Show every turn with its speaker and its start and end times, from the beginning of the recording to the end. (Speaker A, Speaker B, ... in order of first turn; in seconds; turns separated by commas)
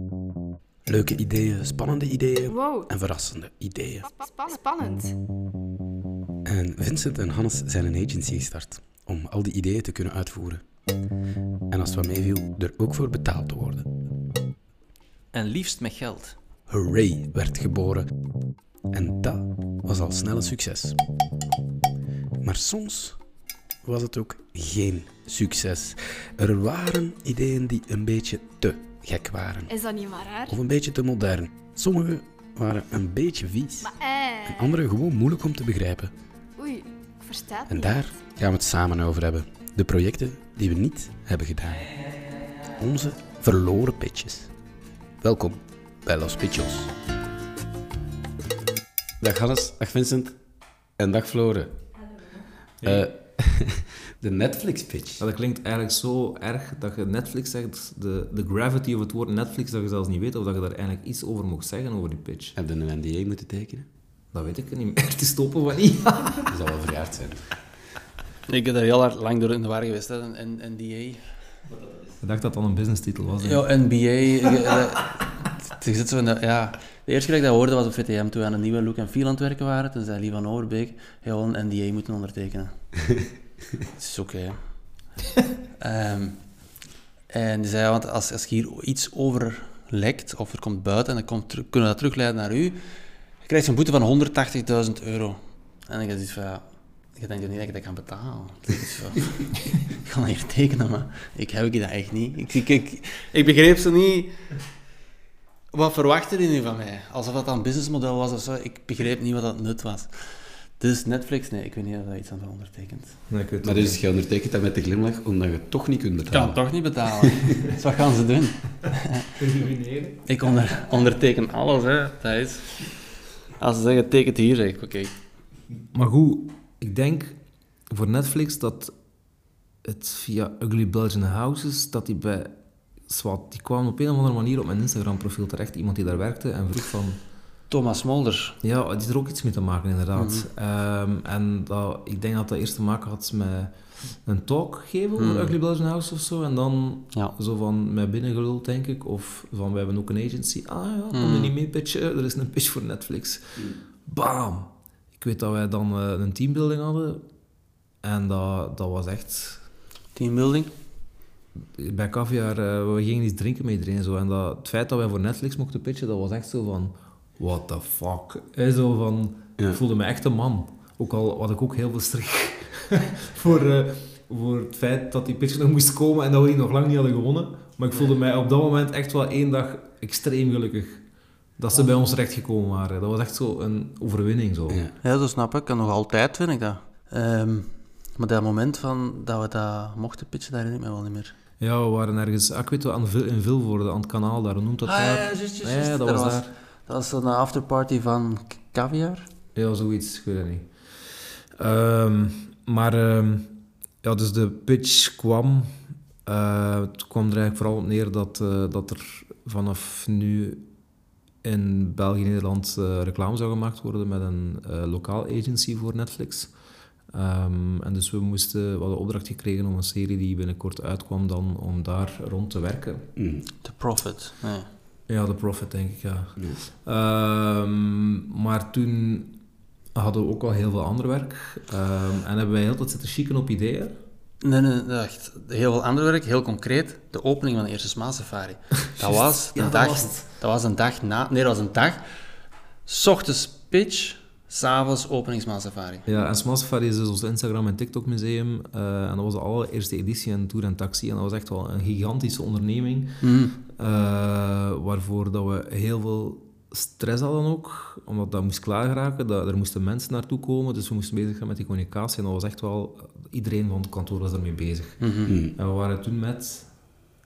Speaker A: 0.9-4.2, Speaker B: 2.5-2.9, Speaker B: 4.0-5.1, Speaker A: 6.5-10.6, Speaker A: 11.7-13.8, Speaker C: 15.3-16.4, Speaker A: 16.7-18.1, Speaker A: 18.9-21.0, Speaker A: 22.4-23.2, Speaker A: 23.8-29.7, Speaker B: 29.7-30.6, Speaker A: 30.5-36.1, Speaker B: 33.8-34.7, Speaker B: 36.6-38.0, Speaker A: 37.7-41.9, Speaker A: 42.8-44.5, Speaker A: 45.2-46.9, Speaker A: 49.2-50.3, Speaker A: 51.0-51.8, Speaker D: 52.8-53.1, Speaker A: 52.8-55.2, Speaker D: 55.2-62.5, Speaker A: 62.5-63.9, Speaker D: 64.3-66.5, Speaker A: 66.5-67.5, Speaker C: 68.5-71.2, Speaker D: 72.2-73.7, Speaker C: 73.4-82.7, Speaker C: 83.9-84.6, Speaker C: 85.8-86.4, Speaker C: 87.3-92.8, Speaker C: 93.4-96.6, Speaker C: 97.1-104.3, Speaker C: 105.7-110.1, Speaker C: 110.8-113.2, Speaker D: 113.3-114.0, Speaker A: 113.6-116.6, Speaker C: 116.3-119.3, Speaker D: 119.4-120.2, Speaker C: 120.2-122.7, Speaker C: 123.6-125.1, Speaker D: 125.9-127.3, Speaker D: 127.9-128.9, Speaker D: 129.8-132.5, Speaker D: 133.1-137.2, Speaker C: 137.7-138.6, Speaker D: 138.6-143.7, Speaker C: 140.2-140.5, Speaker D: 144.2-157.2, Speaker C: 145.2-145.6, Speaker C: 151.1-151.5, Speaker D: 158.0-159.6, Speaker C: 160.1-160.7, Speaker D: 161.8-181.0, Speaker D: 181.6-184.8, Speaker C: 185.0-191.3, Speaker D: 191.6-196.5, Speaker C: 194.8-199.3, Speaker D: 199.5-200.7, Speaker D: 201.6-203.5, Speaker D: 204.0-205.7, Speaker D: 206.2-210.6, Speaker D: 211.4-216.5, Speaker D: 217.1-223.0, Speaker A: 223.2-223.4, Speaker C: 223.6-224.7, Speaker D: 225.1-229.4, Speaker D: 229.9-233.9, Speaker C: 234.4-242.0, Speaker D: 239.0-240.2, Speaker C: 242.8-246.0, Speaker D: 246.1-253.1, Speaker C: 253.2-253.6, Speaker D: 253.7-266.7, Speaker C: 265.0-265.4, Speaker A: 265.3-265.6